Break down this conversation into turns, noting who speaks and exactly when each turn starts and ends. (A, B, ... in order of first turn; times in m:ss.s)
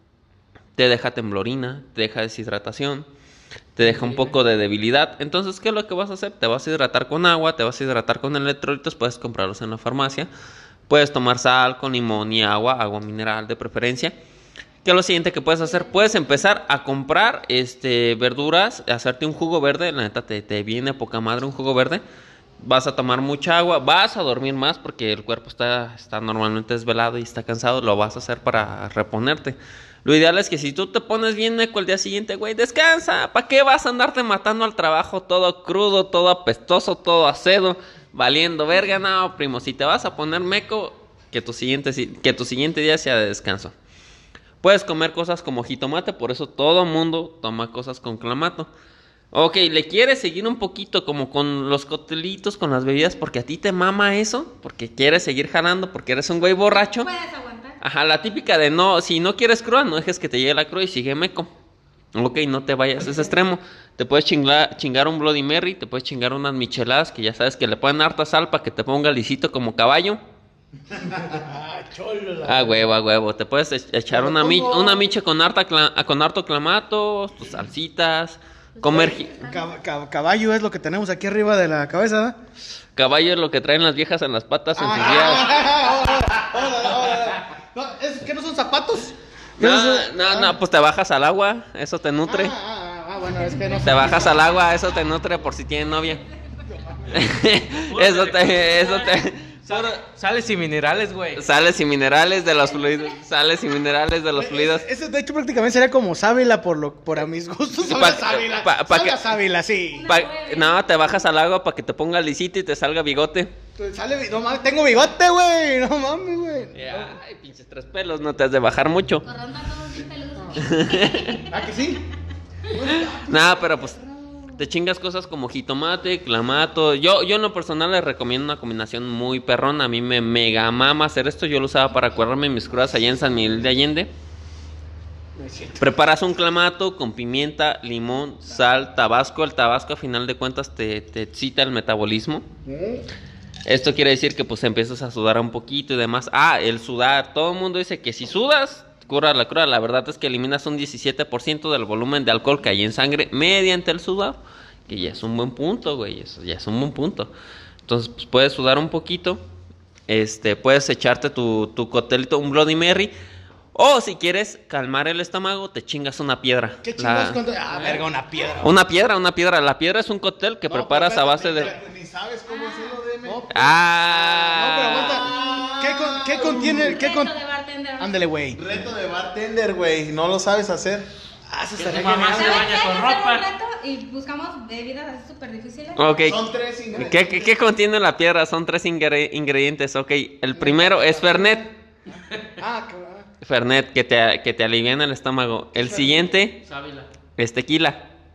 0:00.8-0:03.1 A
0:03.8-0:10.3 A
0:03.8-0:04.3 B
0:10.9-0:14.1 A
0:14.8-0:22.0 A
0:22.6-0:43.7 A
0:44.6-0:48.7 A
0:49.3-0:57.1 A
0:56.7-0:57.8 C
0:57.8-1:01.5 A
1:02.1-1:10.2 A
1:10.9-1:12.8 D
1:12.4-1:19.3 A
1:14.1-1:15.0 D
1:18.8-1:19.6 C
1:19.0-1:22.4 D
1:23.0-1:25.7 A
1:24.8-1:30.6 D
1:29.6-1:32.5 A
1:32.2-1:34.5 D
1:33.8-1:36.2 A
1:33.9-1:35.0 C
1:36.7-1:37.4 D
1:37.1-1:40.0 A
1:37.7-1:41.4 B
1:41.4-1:44.8 A
1:44.3-1:50.1 D
1:47.8-1:49.2 A
1:49.9-1:50.8 C
1:50.0-1:53.5 A
1:53.8-1:57.1 D
1:56.7-1:59.2 A
1:59.2-2:01.5 C
2:00.5-2:01.4 A
2:01.5-2:02.0 D
2:02.7-2:03.9 D
2:03.0-2:04.0 A
2:04.6-2:14.1 A
2:15.4-2:15.8 D
2:15.8-2:22.4 A
2:22.6-2:23.0 D
2:23.6-2:37.3 A
2:37.8-2:39.4 A
2:40.1-2:43.1 A
2:43.7-2:48.0 A
2:46.8-2:48.7 D
2:48.6-2:51.7 A
2:50.7-2:51.8 D
2:51.5-2:53.4 E
2:52.5-2:52.9 C
2:53.2-2:57.3 D
2:53.5-2:55.3 A
2:55.0-2:56.9 E
2:55.4-2:55.6 C
2:56.4-2:58.2 C
2:58.0-2:58.6 D
2:58.5-3:01.1 E
3:01.5-3:02.7 D
3:01.8-3:03.4 B
3:02.4-3:06.2 C
3:06.0-3:06.4 A
3:06.2-3:07.5 E
3:06.9-3:07.3 D
3:07.0-3:11.6 A
3:10.5-3:11.7 D
3:12.6-3:13.3 D
3:13.4-3:16.6 A
3:15.8-3:16.2 D
3:16.6-3:17.1 B
3:17.4-3:18.0 A